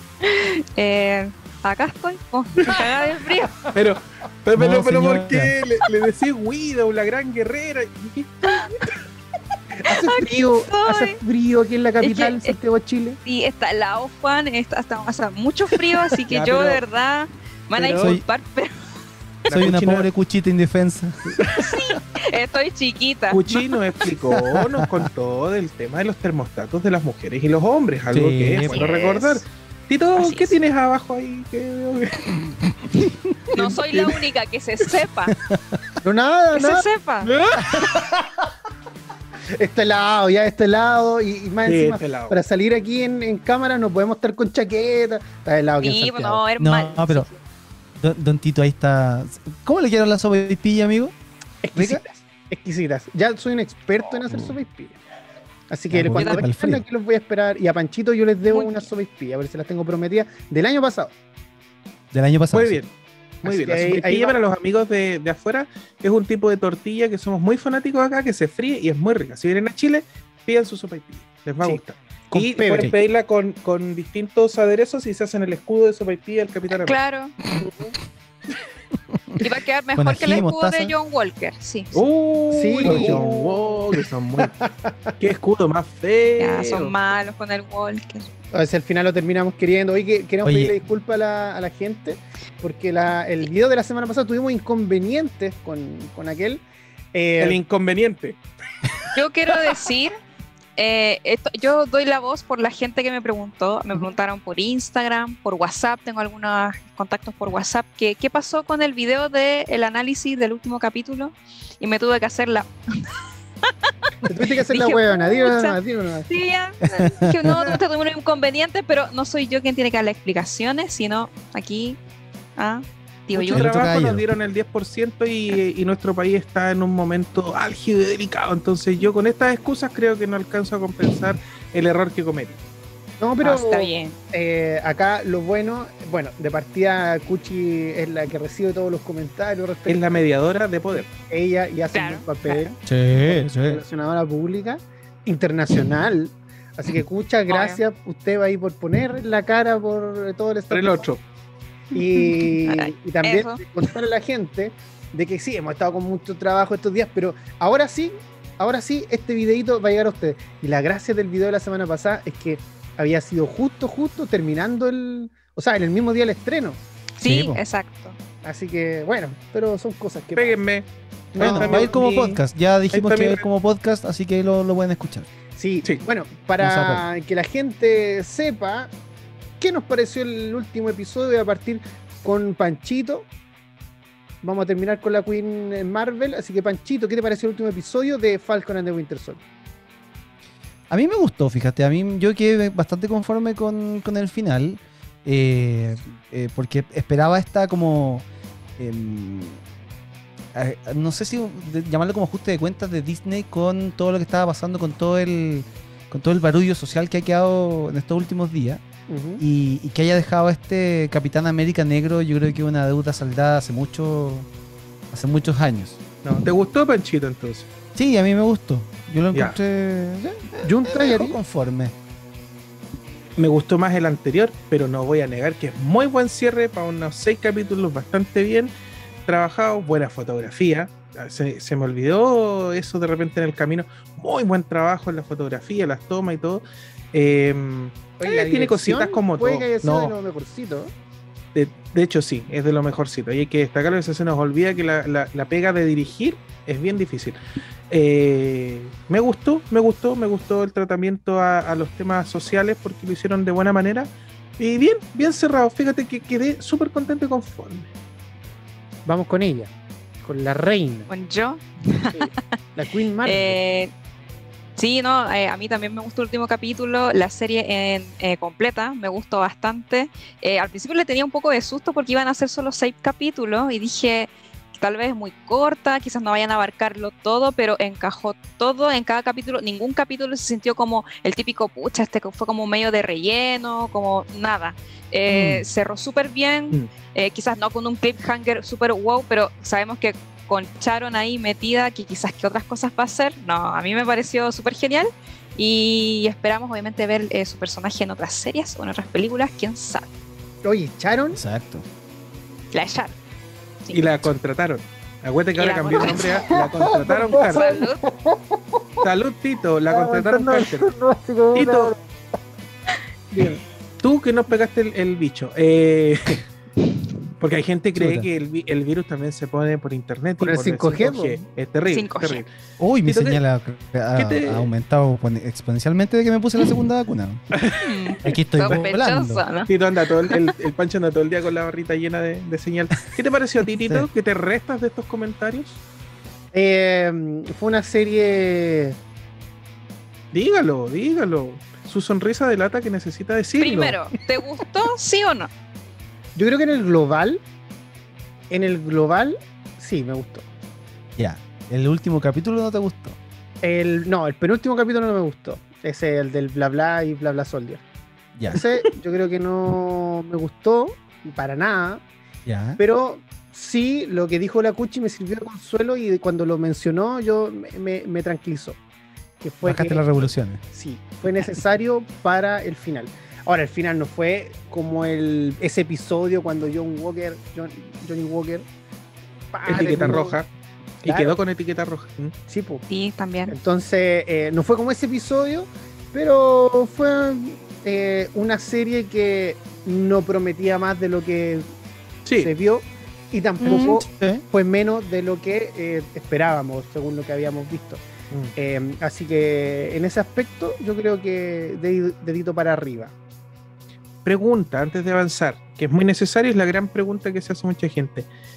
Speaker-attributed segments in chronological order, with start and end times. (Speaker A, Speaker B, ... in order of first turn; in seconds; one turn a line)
Speaker A: 0.2-3.6
Speaker B: 3.7-9.0
Speaker C: 4.5-5.5
Speaker D: 9.7-13.2
Speaker A: 10.0-11.2
Speaker A: 12.0-12.6
Speaker A: 13.2-18.8
Speaker B: 16.3-16.8
Speaker B: 17.8-18.2
Speaker B: 19.4-20.1
Speaker C: 19.5-21.6
Speaker A: 21.6-23.4
Speaker B: 23.3-32.4
Speaker C: 24.4-25.1
Speaker C: 28.1-28.8
Speaker A: 28.6-29.4
Speaker A: 30.1-30.6
Speaker A: 33.5-35.4
Speaker B: 33.6-34.1
Speaker C: 35.5-35.8
Speaker D: 36.0-36.9
Speaker A: 36.5-37.3
Speaker B: 37.2-37.8
Speaker C: 37.6-38.0
Speaker D: 39.6-46.4
Speaker B: 41.6-42.4
Speaker A: 45.8-47.4
Speaker C: 46.6-47.3
Speaker C: 48.0-51.1
Speaker D: 51.6-55.0
Speaker C: 51.7-52.0
Speaker D: 55.7-61.1
Speaker C: 55.9-56.8
Speaker A: 56.1-56.5
Speaker A: 58.5-58.8
Speaker C: 62.1-62.8
Speaker B: 62.5-62.9
Speaker B: 63.4-77.0
Speaker D: 63.4-64.4
Speaker C: 72.3-73.0
Speaker D: 72.6-72.9
Speaker A: 76.8-77.3
Speaker D: 77.6-77.9
Speaker A: 79.4-82.0
Speaker C: 80.0-80.9
Speaker B: 81.9-84.5
Speaker D: 82.5-85.2
Speaker B: 85.2-86.9
Speaker A: 86.4-88.2
Speaker D: 88.5-96.6
Speaker C: 90.4-90.8
Speaker D: 97.1-97.6
Speaker B: 97.4-98.4
Speaker A: 99.1-100.1
Speaker A: 100.8-112.7
Speaker D: 114.2-116.3
Speaker A: 114.7-122.0
Speaker C: 116.8-117.8
Speaker A: 122.6-123.7
Speaker B: 123.3-132.6
Speaker C: 123.5-124.2
Speaker D: 133.2-140.2
Speaker A: 133.4-134.2
Speaker B: 139.9-141.1
Speaker D: 140.9-151.1
Speaker A: 141.9-142.7
Speaker C: 142.9-143.8
Speaker A: 147.5-147.8
Speaker B: 150.7-151.2
Speaker D: 151.9-166.8
Speaker A: 151.9-153.6
Speaker A: 167.2-168.2
Speaker C: 167.2-167.6
Speaker D: 168.4-170.6
Speaker B: 170.3-173.4
Speaker D: 171.3-172.0
Speaker C: 171.4-175.3
Speaker D: 175.6-178.9
Speaker C: 176.6-177.0
Speaker D: 179.6-183.3
Speaker D: 184.4-189.4
Speaker C: 190.9-198.2
Speaker C: 198.8-199.6
Speaker C: 200.6-208.8
Speaker D: 209.1-209.4
Speaker C: 209.4-214.5
Speaker C: 215.1-216.0
Speaker B: 216.2-217.7
Speaker C: 217.9-221.9
Speaker D: 220.6-221.3
Speaker B: 223.4-228.7
Speaker B: 229.3-240.1
Speaker D: 238.2-240.9
Speaker B: 241.5-247.4
Speaker B: 247.9-257.9
Speaker D: 259.0-261.1
Speaker A: 261.1-262.3
Speaker D: 262.1-263.6
Speaker A: 263.2-263.9
Speaker A: 264.8-300.1
Speaker C: 285.3-285.6
Speaker D: 300.6-301.4
Speaker C: 301.3-301.8
Speaker A: 302.7-303.1
Speaker B: 303.9-307.8
Speaker A: 305.6-306.4
Speaker D: 306.3-308.4
Speaker A: 307.4-308.0
Speaker B: 309.0-310.9
Speaker D: 309.9-312.0
Speaker B: 311.5-311.9
Speaker D: 313.3-313.6
Speaker B: 314.0-316.4
Speaker B: 317.4-322.5
Speaker C: 317.9-318.3
Speaker D: 320.4-321.4
Speaker A: 321.9-322.4
Speaker C: 322.8-327.4
Speaker B: 323.1-323.4
Speaker B: 324.1-324.7
Speaker B: 327.5-327.9
Speaker A: 327.8-329.7
Speaker C: 328.2-329.4
Speaker B: 329.7-335.8
Speaker D: 336.5-338.9
Speaker B: 340.3-343.9
Speaker A: 343.6-345.5
Speaker D: 346.4-347.4
Speaker D: 348.5-350.5
Speaker C: 351.1-353.2
Speaker D: 353.6-357.8
Speaker C: 358.4-358.6
Speaker D: 358.5-362.0
Speaker C: 362.4-362.8
Speaker D: 362.8-368.8
Speaker D: 369.4-378.6
Speaker C: 369.6-370.6
Speaker D: 379.5-380.4
Speaker B: 379.6-380.5
Speaker B: 381.0-382.3
Speaker D: 381.0-381.4
Speaker D: 382.5-382.8
Speaker A: 382.9-383.5
Speaker D: 383.5-391.6
Speaker B: 392.2-392.5
Speaker D: 392.4-398.0
Speaker C: 393.6-394.4
Speaker D: 398.6-403.1
Speaker B: 404.2-408.3